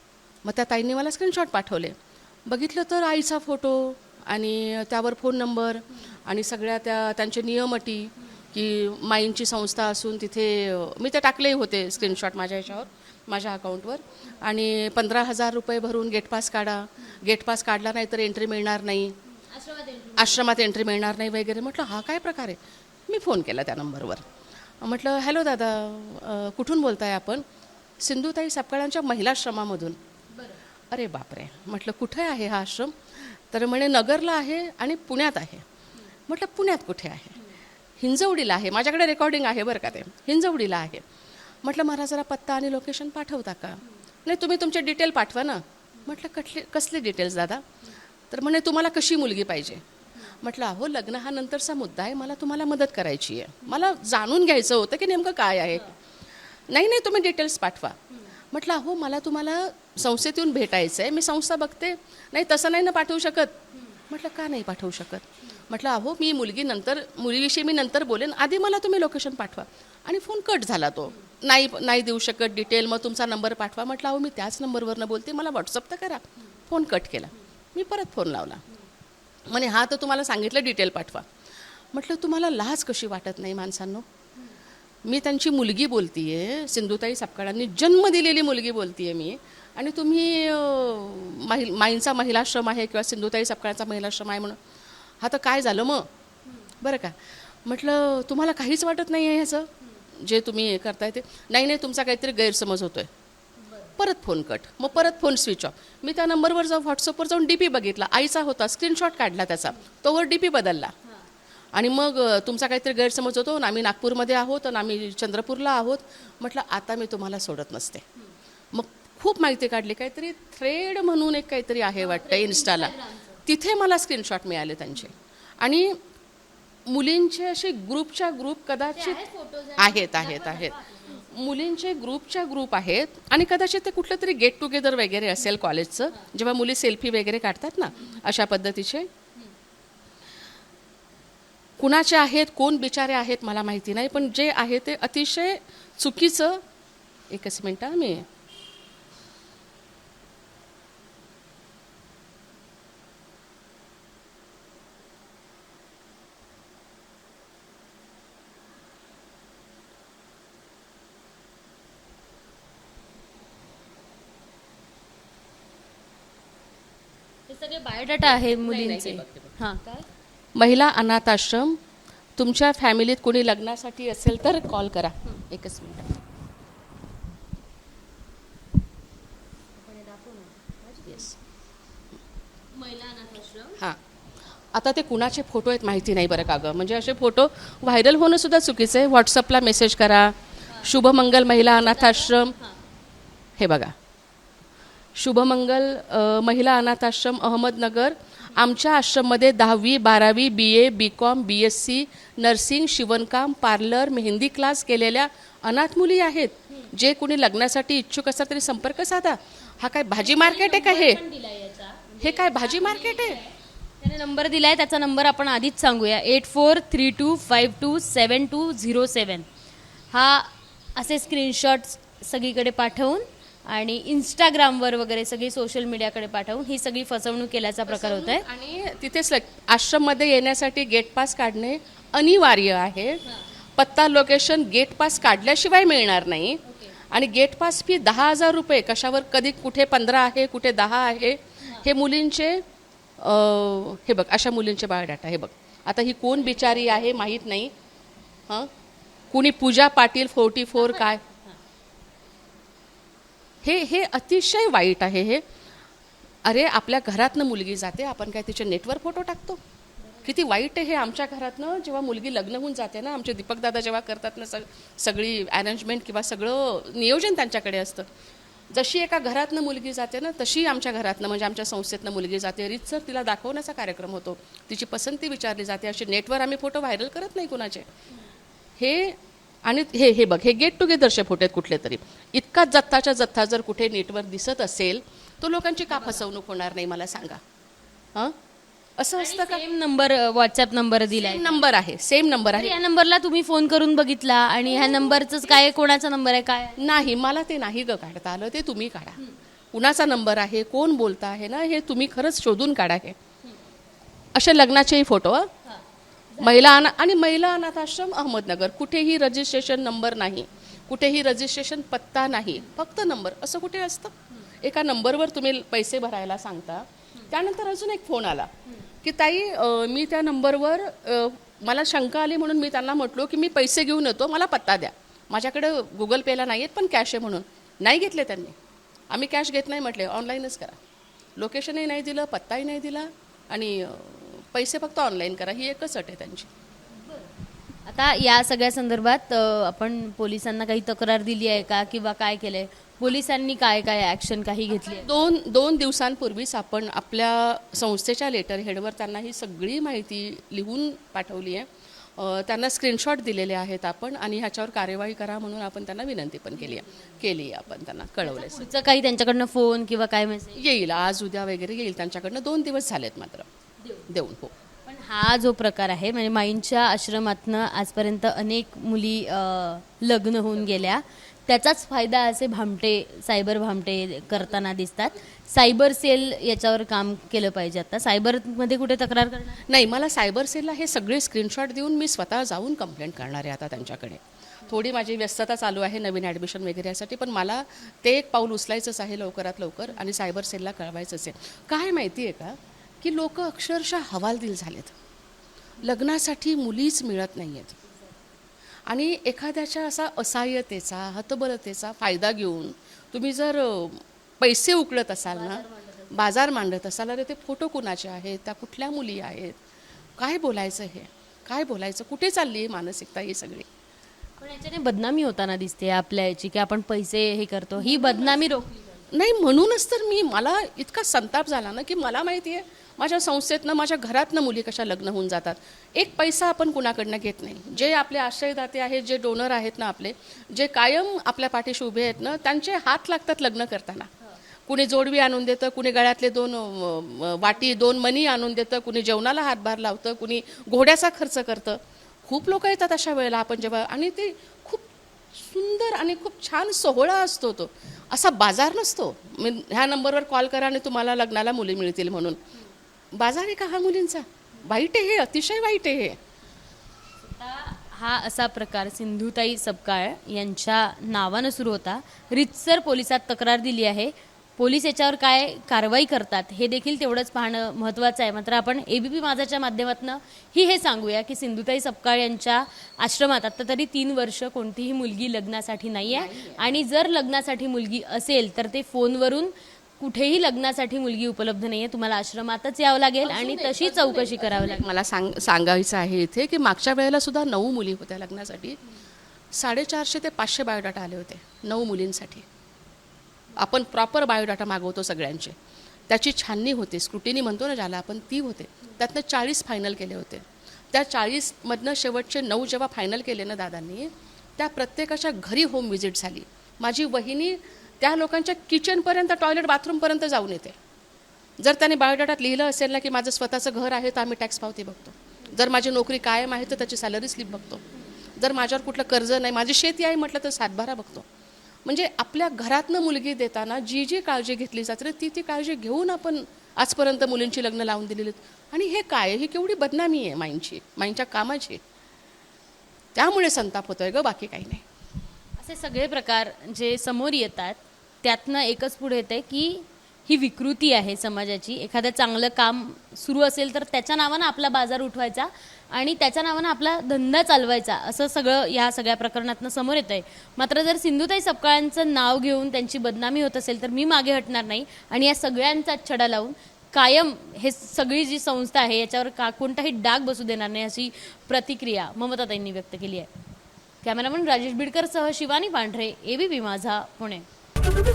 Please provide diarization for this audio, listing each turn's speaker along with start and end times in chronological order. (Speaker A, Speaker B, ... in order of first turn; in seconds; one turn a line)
Speaker A: 0.4-19.1
Speaker B: 19.5-20.4
Speaker A: 20.2-24.3
Speaker A: 24.8-27.4
Speaker A: 28.0-30.0
Speaker B: 30.3-30.6
Speaker A: 30.9-35.6
Speaker A: 36.3-37.4
Speaker A: 38.0-41.0
Speaker A: 41.6-47.6
Speaker A: 48.3-55.9
Speaker A: 56.7-58.0
Speaker A: 58.5-78.6
Speaker A: 79.5-81.2
Speaker A: 81.9-84.0
Speaker A: 85.0-94.6
Speaker A: 95.2-96.1
Speaker A: 96.8-103.1
Speaker B: 103.7-103.9
Speaker A: 104.0-110.9
Speaker A: 111.7-118.0
Speaker A: 118.7-126.0
Speaker B: 122.0-123.4
Speaker A: 126.9-129.2
Speaker B: 128.9-131.3
Speaker A: 129.8-139.1
Speaker A: 141.8-146.6
Speaker A: 147.3-148.2
Speaker B: 167.5-170.1
Speaker A: 168.2-169.6
Speaker A: 170.6-171.8
Speaker A: 172.4-176.1
Speaker B: 179.8-181.3
Speaker B: 182.7-183.8
Speaker A: 184.7-192.5
Speaker B: 191.6-192.8
Speaker A: 193.6-193.9
Speaker A: 195.2-211.2
Speaker B: 210.2-219.5
Speaker A: 212.2-213.4
Speaker B: 220.1-228.4
Speaker A: 227.9-233.2
Speaker A: 233.8-242.6
Speaker B: 236.7-236.9
Speaker A: 243.2-247.7
Speaker A: 249.3-251.2
Speaker B: 250.8-251.6
Speaker A: 253.6-255.4
Speaker A: 256.4-259.6
Speaker A: 260.2-268.1
Speaker A: 268.7-277.9
Speaker A: 278.8-287.4
Speaker B: 285.9-286.2
Speaker A: 289.0-289.6
Speaker B: 289.1-291.6
Speaker A: 291.1-292.7
Speaker B: 292.5-296.8
Speaker A: 294.6-295.7
Speaker A: 296.8-299.2
Speaker A: 299.7-303.1
Speaker A: 304.3-305.5
Speaker B: 306.4-306.7
Speaker A: 306.4-318.5
Speaker A: 319.0-328.6
Speaker A: 329.1-330.8
Speaker A: 331.4-336.5
Speaker B: 337.0-337.3
Speaker B: 337.9-345.1
Speaker A: 344.8-358.7
Speaker B: 356.6-357.0
Speaker B: 358.2-360.6
Speaker A: 360.6-363.5
Speaker A: 364.1-364.5
Speaker B: 364.9-379.6
Speaker A: 379.6-394.9
Speaker A: 395.8-397.8
Speaker A: 398.9-409.6
Speaker B: 405.3-406.3
Speaker A: 410.2-413.6
Speaker B: 414.4-418.8
Speaker A: 417.8-434.1
Speaker A: 434.6-452.4
Speaker A: 453.1-456.2
Speaker B: 457.2-484.9
Speaker A: 476.0-476.7
Speaker A: 483.2-488.8
Speaker A: 489.5-492.4
Speaker A: 493.6-495.6
Speaker A: 496.1-510.8
Speaker A: 511.6-517.8
Speaker A: 518.4-521.2
Speaker A: 521.9-531.8
Speaker A: 533.1-534.8
Speaker B: 535.6-563.3
Speaker B: 564.0-567.5